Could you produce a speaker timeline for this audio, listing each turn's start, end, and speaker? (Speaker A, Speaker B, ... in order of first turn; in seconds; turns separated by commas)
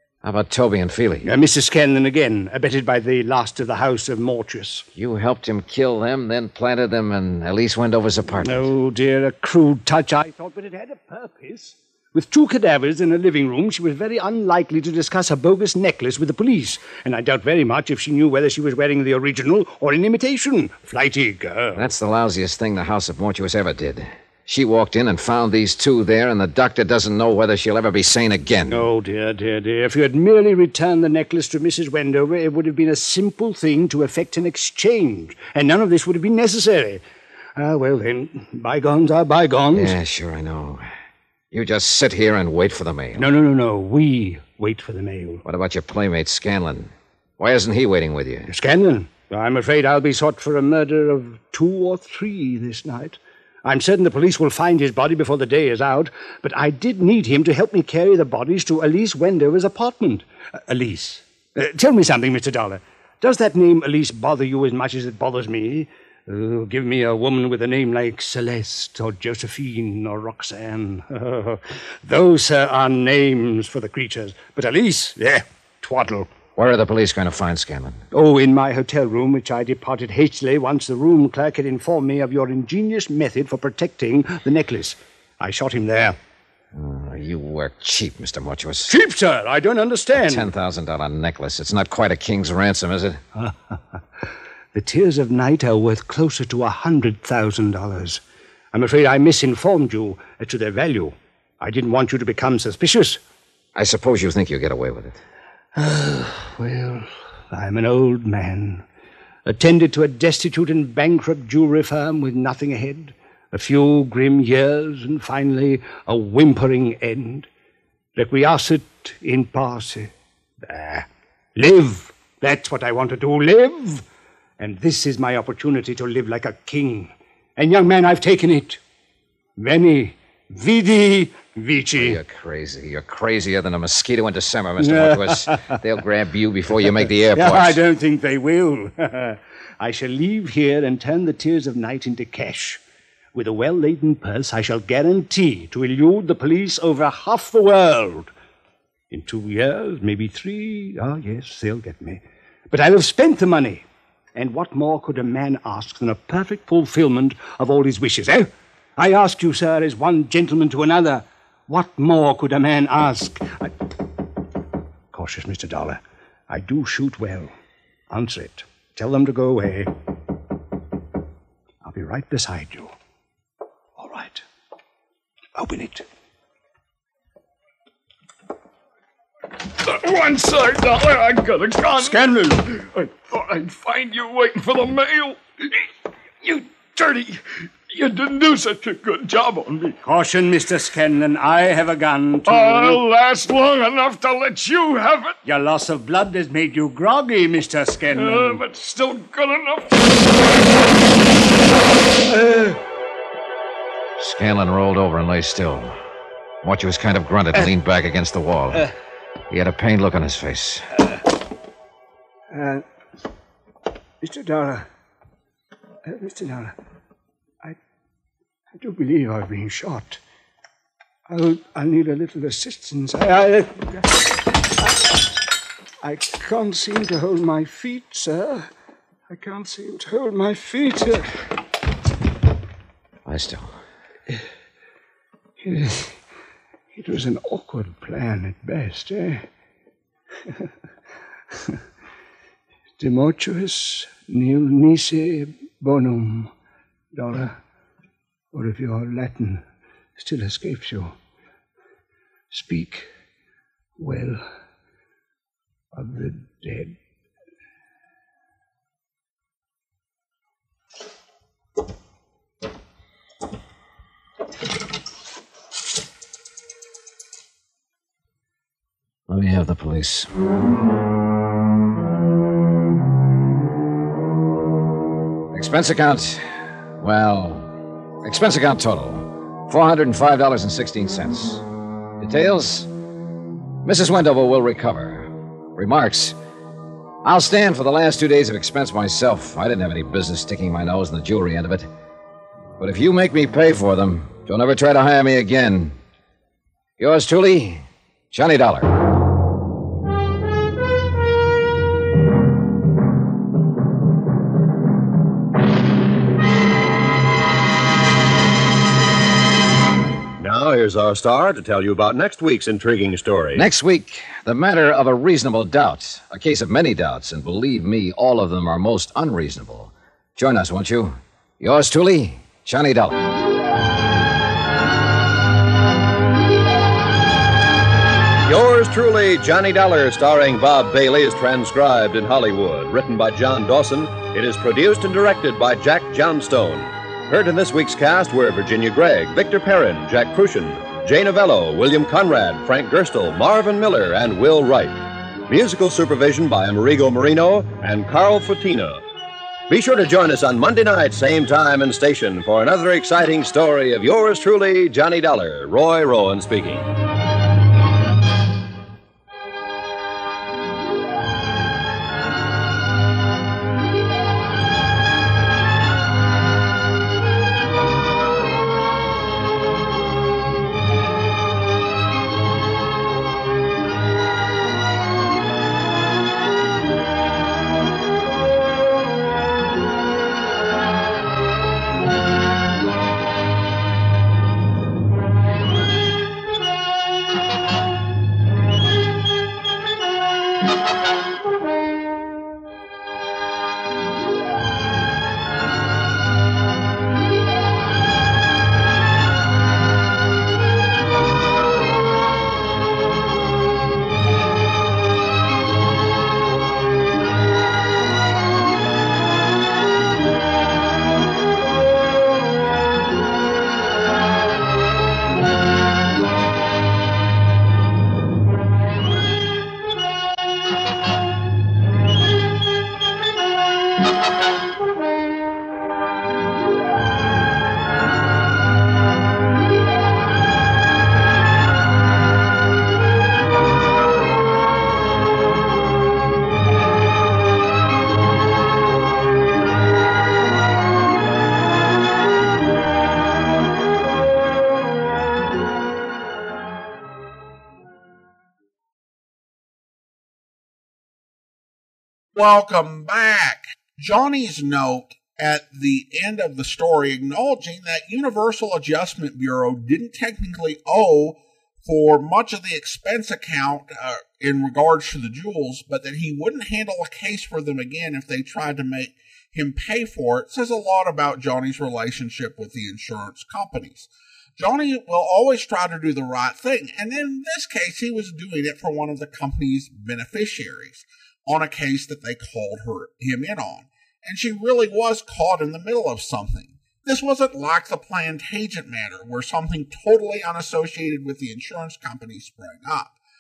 Speaker A: 0.2-1.3, Speaker B: 1.2-4.8, Speaker A: 5.0-8.7, Speaker B: 8.4-21.9, Speaker A: 21.8-28.9, Speaker B: 28.7-37.0, Speaker B: 37.6-40.0, Speaker A: 39.7-40.8, Speaker A: 41.5-43.3, Speaker B: 43.1-45.4, Speaker A: 45.5-48.5, Speaker B: 48.5-76.3, Speaker A: 76.6-78.0, Speaker B: 78.1-86.2, Speaker A: 86.7-89.0, Speaker B: 88.9-90.5, Speaker A: 90.2-93.2, Speaker B: 93.4-94.0, Speaker B: 94.7-98.2, Speaker B: 98.7-103.2, Speaker A: 103.7-105.2, Speaker B: 105.8-108.8, Speaker B: 109.5-117.5, Speaker B: 118.2-120.1, Speaker B: 120.6-124.0, Speaker B: 124.6-128.8, Speaker B: 129.6-132.2, Speaker A: 132.0-137.8, Speaker B: 134.8-135.7, Speaker B: 137.3-142.8, Speaker B: 143.3-148.3, Speaker B: 149.1-163.7, Speaker B: 165.1-167.5, Speaker B: 168.1-169.9, Speaker B: 171.8-172.9, Speaker B: 174.0-174.4, Speaker B: 175.6-176.1, Speaker C: 179.8-185.8, Speaker B: 181.9-182.6, Speaker C: 186.4-190.0, Speaker B: 190.0-193.0, Speaker C: 192.5-195.4, Speaker B: 195.4-198.6, Speaker C: 198.1-200.1, Speaker B: 202.3-202.7, Speaker A: 204.2-206.0, Speaker A: 206.6-208.9, Speaker A: 209.5-210.9, Speaker B: 212.5-212.8, Speaker B: 214.2-214.9, Speaker B: 216.1-216.7, Speaker B: 218.8-220.2, Speaker B: 221.3-224.3, Speaker B: 226.0-228.7, Speaker B: 229.3-231.3, Speaker A: 233.2-233.8, Speaker B: 235.6-236.2, Speaker B: 236.9-239.4, Speaker B: 243.0-246.5, Speaker B: 247.2-247.6, Speaker B: 248.5-249.6, Speaker B: 250.2-251.1, Speaker B: 252.5-253.1, Speaker B: 254.0-254.4, Speaker B: 255.9-256.9, Speaker A: 269.3-270.3, Speaker A: 275.5-281.6, Speaker A: 282.2-282.9, Speaker A: 283.8-286.4, Speaker A: 287.2-291.9, Speaker A: 292.8-295.9, Speaker A: 297.0-298.9, Speaker D: 310.4-313.6, Speaker A: 313.6-323.2, Speaker D: 328.4-349.0, Speaker D: 349.7-356.9, Speaker E: 452.3-493.2